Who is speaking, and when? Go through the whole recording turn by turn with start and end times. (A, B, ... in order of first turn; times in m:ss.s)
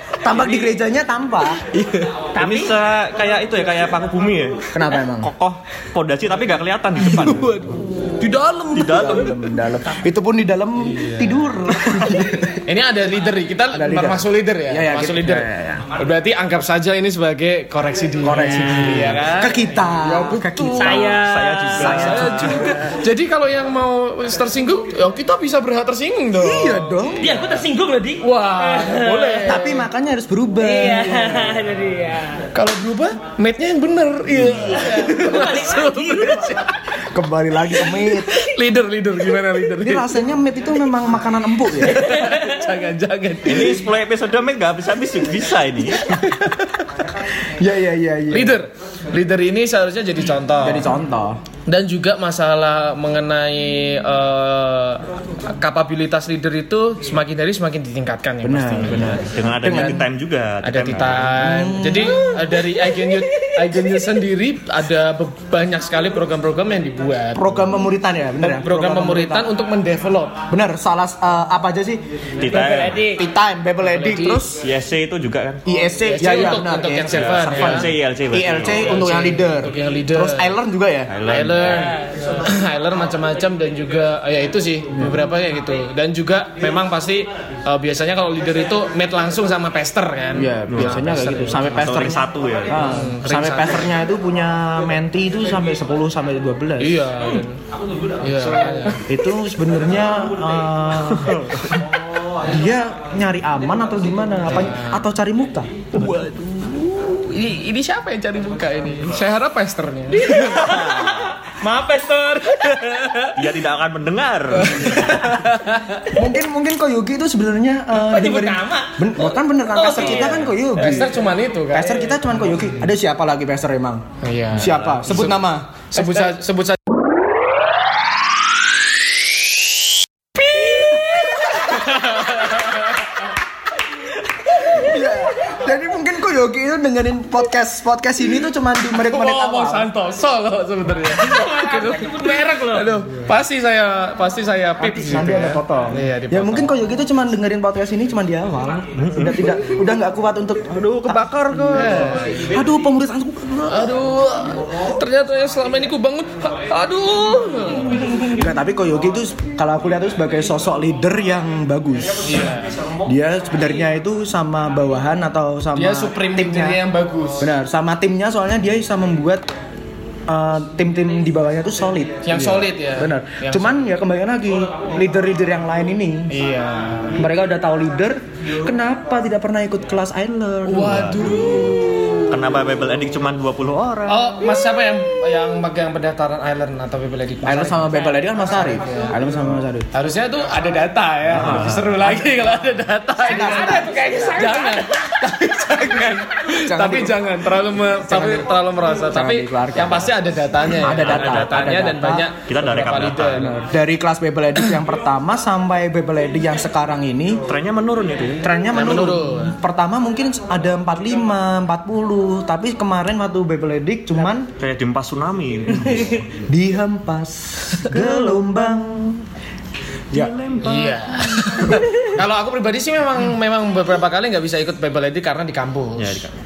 0:00.2-0:01.6 A
0:01.7-0:02.1 B
0:02.3-0:02.8 C
0:02.3-0:07.5 D
0:04.7-0:05.3 A
0:07.0-0:09.3 B
0:08.7-0:09.4 D
0:08.9-0:12.6 A
0:10.8-0:11.5 B
0:12.6-0:21.1 B
0:13.7-0:15.8 A
0:18.2-0:21.2 A
0:20.7-0:22.0 C
0:21.2-0:22.7 D
0:21.7-0:27.6 B
0:21.7-0:22.9 A
0:26.3-0:27.3 A
0:27.2-0:29.4 C
0:28.2-0:29.9 B
0:29.4-0:31.6 A
0:30.6-0:32.4 C
0:32.5-0:36.7 B
0:34.7-0:36.6 C
0:37.0-0:38.3 A
0:37.8-0:40.1 B
0:39.8-0:42.1 A
0:41.8-0:43.8 B
0:42.1-0:42.5 C
0:43.4-0:46.1 D
0:46.2-0:46.6 B
0:47.4-0:48.6 A
0:48.3-0:50.9 B
0:50.6-0:51.4 A
0:51.7-0:59.2 B
0:58.4-1:00.1 A
0:58.9-1:01.3 D
1:00.6-1:07.7 B
1:01.3-1:02.6 A
1:07.3-1:09.5 A
1:08.4-1:10.4 B
1:10.5-1:12.0 A
1:12.4-1:13.0 D
1:12.5-1:13.2 C
1:13.2-1:14.6 A
1:13.8-1:14.5 B
1:14.6-1:15.6 D
1:15.6-1:21.1 A
1:16.0-1:17.9 B
1:17.1-1:19.1 D
1:18.7-1:20.6 B
1:21.1-1:21.9 D
1:21.2-1:32.2 B
1:21.6-1:22.5 C
1:24.9-1:25.2 A
1:30.3-1:37.0 A
1:30.7-1:32.8 D
1:32.7-1:33.9 B
1:36.8-1:37.6 B
1:38.2-1:39.0 B
1:39.0-1:41.8 A
1:41.0-1:41.6 D
1:42.4-1:45.7 A
1:44.4-1:45.1 B
1:45.9-1:50.4 B
1:50.2-1:52.8 C
1:50.5-1:51.3 D
1:52.6-1:53.3 B
1:53.3-1:55.1 D
1:54.5-1:56.1 B
1:54.8-1:55.1 A
1:56.1-2:01.1 A
1:58.0-1:59.1 C
1:59.7-2:01.0 C
2:00.8-2:02.9 B
2:01.7-2:05.9 A
2:04.2-2:06.8 B
2:10.6-2:11.1 C
2:11.6-2:13.1 B
2:14.6-2:19.9 A
2:18.9-2:26.8 B
2:21.2-2:22.9 C
2:24.8-2:34.0 A
2:29.0-2:29.5 D
2:31.7-2:32.5 B
2:33.7-2:38.3 B
2:38.2-2:42.5 A
2:42.2-2:42.7 B
2:43.0-2:46.8 A
2:45.7-2:47.5 B
2:47.4-2:49.5 A
2:50.3-2:56.3 A
2:52.2-2:53.8 B
2:56.3-2:57.2 B
2:57.2-3:01.6 A
3:00.6-3:02.6 B
3:00.8-3:01.7 D
3:02.3-3:04.3 D
3:04.1-3:09.2 B
3:07.4-3:09.9 A
3:08.1-3:08.6 C
3:09.9-3:23.5 B
3:11.3-3:12.0 D
3:11.9-3:12.4 A
3:13.2-3:14.5 A
3:13.3-3:15.1 C
3:16.6-3:17.2 A
3:18.0-3:18.6 A
3:19.1-3:22.3 A
3:20.9-3:21.7 D
3:22.4-3:23.5 D
3:23.3-3:27.4 A
3:27.4-3:28.5 D
3:28.4-3:34.5 A
3:28.7-3:29.5 B
3:34.6-3:36.4 D
3:36.4-3:39.2 A
3:37.9-3:38.5 D
3:40.1-3:41.8 D
3:40.6-3:46.3 B
3:46.0-3:46.3 D